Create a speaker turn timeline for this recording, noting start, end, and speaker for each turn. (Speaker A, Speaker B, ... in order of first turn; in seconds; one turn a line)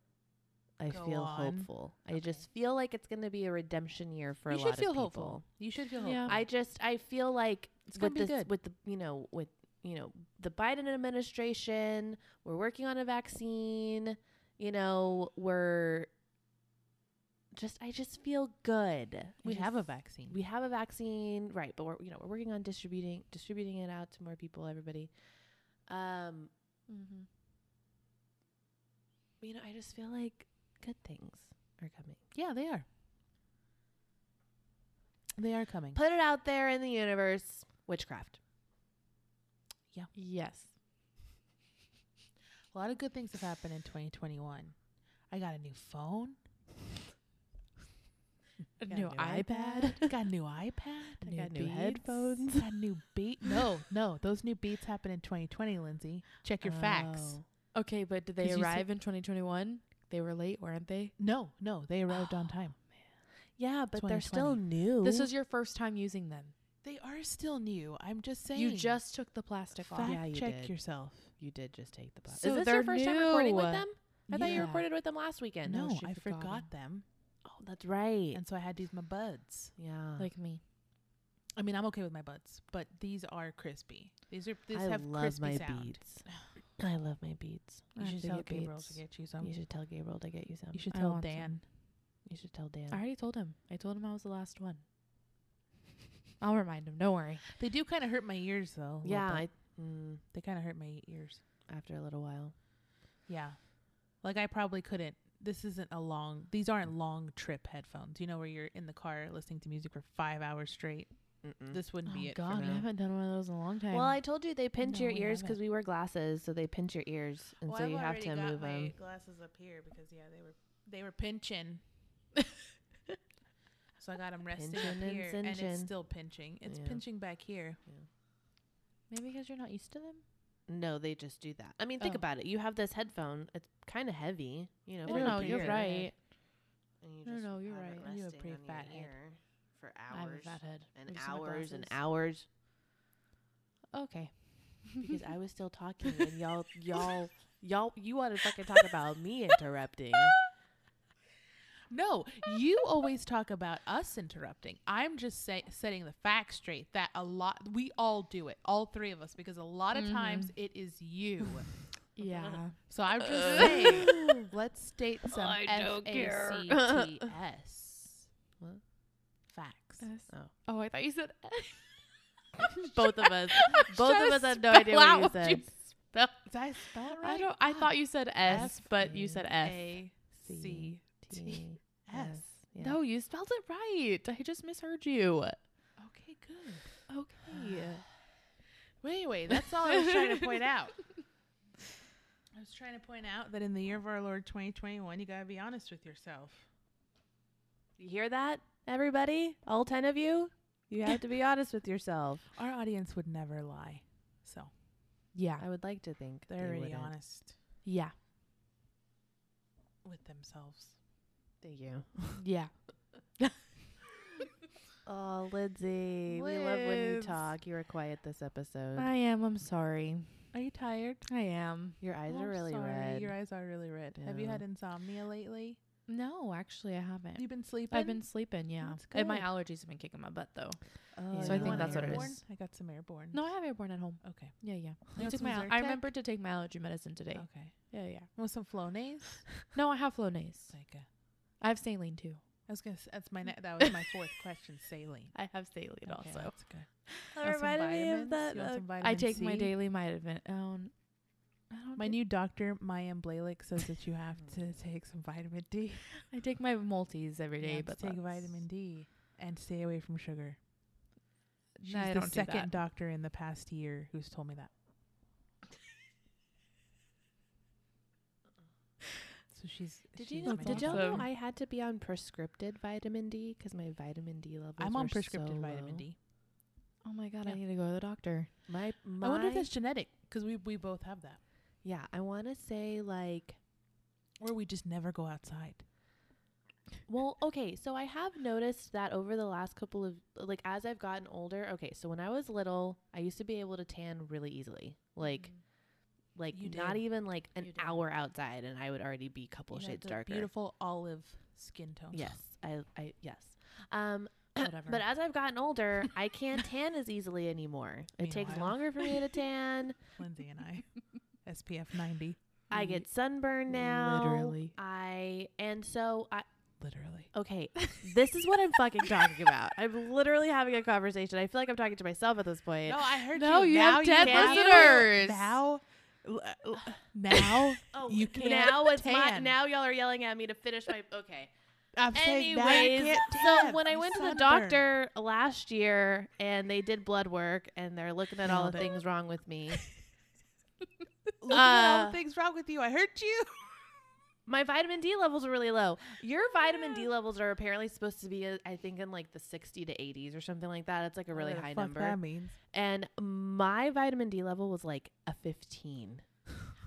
Speaker A: 0.8-5.5
Speaker B: 0.9-2.4
Speaker B: 4.5-6.5
Speaker C: 6.0-6.3
Speaker A: 6.2-16.1
Speaker B: 7.9-8.5
Speaker A: 17.5-25.1
Speaker B: 19.4-20.4
Speaker A: 25.9-26.5
Speaker C: 26.9-27.3
Speaker A: 29.4-32.2
Speaker B: 32.3-32.9
Speaker B: 35.4-36.0
Speaker A: 36.0-38.4
Speaker C: 40.1-40.7
Speaker B: 42.7-44.8
Speaker B: 45.3-46.4
Speaker C: 48.8-50.1
Speaker A: 48.9-50.1
Speaker B: 50.1-51.3
Speaker A: 51.2-52.8
Speaker C: 51.3-52.4
Speaker B: 52.5-57.4
Speaker A: 56.6-57.5
Speaker C: 57.7-61.2
Speaker B: 58.4-58.9
Speaker B: 61.2-62.8
Speaker A: 63.5-65.3
Speaker B: 64.0-64.6
Speaker C: 65.0-66.5
Speaker B: 66.8-69.0
Speaker C: 68.5-70.2
Speaker B: 69.8-71.3
Speaker A: 70.0-70.8
Speaker A: 71.3-75.9
Speaker C: 72.3-74.9
Speaker B: 74.3-74.7
Speaker B: 75.7-77.0
Speaker C: 75.8-76.7
Speaker A: 77.5-78.4
Speaker B: 78.3-79.8
Speaker A: 79.8-80.3
Speaker C: 80.2-80.6
Speaker B: 81.6-86.4
Speaker A: 84.7-87.9
Speaker C: 88.0-89.0
Speaker B: 88.0-89.5
Speaker A: 89.4-90.8
Speaker B: 90.7-91.7
Speaker C: 90.9-91.6
Speaker A: 92.2-93.0
Speaker C: 92.9-94.8
Speaker C: 96.4-97.5
Speaker B: 97.6-99.5
Speaker A: 99.0-100.2
Speaker B: 100.3-101.4
Speaker A: 101.7-102.5
Speaker B: 103.3-111.1
Speaker A: 111.4-111.8
Speaker B: 111.7-112.8
Speaker C: 112.0-114.2
Speaker A: 112.5-112.9
Speaker A: 113.9-118.9
Speaker B: 114.8-115.6
Speaker B: 117.7-121.8
Speaker B: 124.0-127.8
Speaker A: 124.5-125.9
Speaker A: 126.7-127.0
Speaker C: 129.1-130.2
Speaker A: 130.7-136.1
Speaker C: 135.1-136.2
Speaker B: 135.1-136.1
Speaker A: 137.0-142.5
Speaker C: 137.2-138.1
Speaker B: 138.0-139.1
Speaker C: 140.1-142.0
Speaker C: 143.9-145.2
Speaker A: 145.0-150.4
Speaker B: 151.9-161.9
Speaker C: 159.9-160.6
Speaker C: 162.2-164.2
Speaker A: 162.2-162.6
Speaker B: 162.9-168.3
Speaker A: 163.4-164.4
Speaker C: 165.4-166.7
Speaker A: 166.7-167.0
Speaker B: 169.5-170.1
Speaker C: 170.0-172.1
Speaker C: 172.8-176.5
Speaker A: 172.8-175.7
Speaker B: 176.5-182.5
Speaker C: 177.1-180.0
Speaker A: 178.6-179.4
Speaker A: 180.3-183.0
Speaker C: 182.8-185.6
Speaker B: 186.0-187.0
Speaker C: 187.1-188.1
Speaker B: 187.5-187.8
Speaker B: 189.0-191.1
Speaker C: 189.9-190.4
Speaker B: 192.5-196.7
Speaker A: 198.0-202.5
Speaker B: 202.5-204.7
Speaker C: 205.3-205.6
Speaker A: 205.6-207.1
Speaker B: 206.5-207.6
Speaker C: 207.8-208.1
Speaker B: 210.0-211.0
Speaker A: 211.6-212.4
Speaker C: 212.4-213.5
Speaker A: 215.1-219.1
Speaker B: 216.3-217.6
Speaker C: 219.0-220.5
Speaker B: 220.5-221.3
Speaker C: 221.3-222.0
Speaker A: 222.0-223.4
Speaker B: 222.3-225.8
Speaker A: 224.2-224.6
Speaker C: 226.1-232.4
Speaker B: 227.4-229.5
Speaker B: 231.2-233.7
Speaker A: 231.2-232.4
Speaker C: 233.3-238.3
Speaker B: 234.2-236.1
Speaker B: 237.3-239.5
Speaker C: 239.7-240.8
Speaker B: 240.7-241.1
Speaker C: 241.6-242.4
Speaker B: 242.7-245.4
Speaker C: 245.3-247.2
Speaker B: 246.0-249.7
Speaker A: 247.3-248.9
Speaker C: 249.0-250.9
Speaker C: 251.7-252.2
Speaker B: 252.0-256.1
Speaker C: 256.2-258.6
Speaker B: 257.6-260.6
Speaker B: 261.8-264.7
Speaker C: 261.8-262.7
Speaker B: 269.5-271.3
Speaker A: 270.1-276.1
Speaker C: 270.4-271.3
Speaker B: 274.8-276.2
Speaker C: 277.0-278.6
Speaker A: 278.7-279.7
Speaker B: 279.2-281.4
Speaker A: 281.8-283.6
Speaker B: 284.4-285.8
Speaker A: 287.1-295.5
Speaker C: 295.2-295.6
Speaker A: 296.3-300.5
Speaker B: 296.5-297.1
Speaker C: 297.7-298.0
Speaker B: 299.7-302.3
Speaker A: 302.1-310.0
Speaker C: 304.6-305.0
Speaker B: 308.2-309.1
Speaker B: 310.2-312.6
Speaker A: 312.7-316.5
Speaker C: 312.7-313.0
Speaker C: 313.7-314.8
Speaker B: 316.8-317.3
Speaker A: 317.3-323.0
Speaker B: 322.9-329.6
Speaker C: 323.3-325.6
Speaker A: 324.1-325.0
Speaker A: 327.9-331.5
Speaker B: 331.9-334.9
Speaker A: 332.1-339.9
Speaker B: 338.4-338.9
Speaker B: 341.4-343.9
Speaker A: 341.5-342.2
Speaker A: 344.5-352.2
Speaker B: 351.3-352.6
Speaker A: 352.7-356.7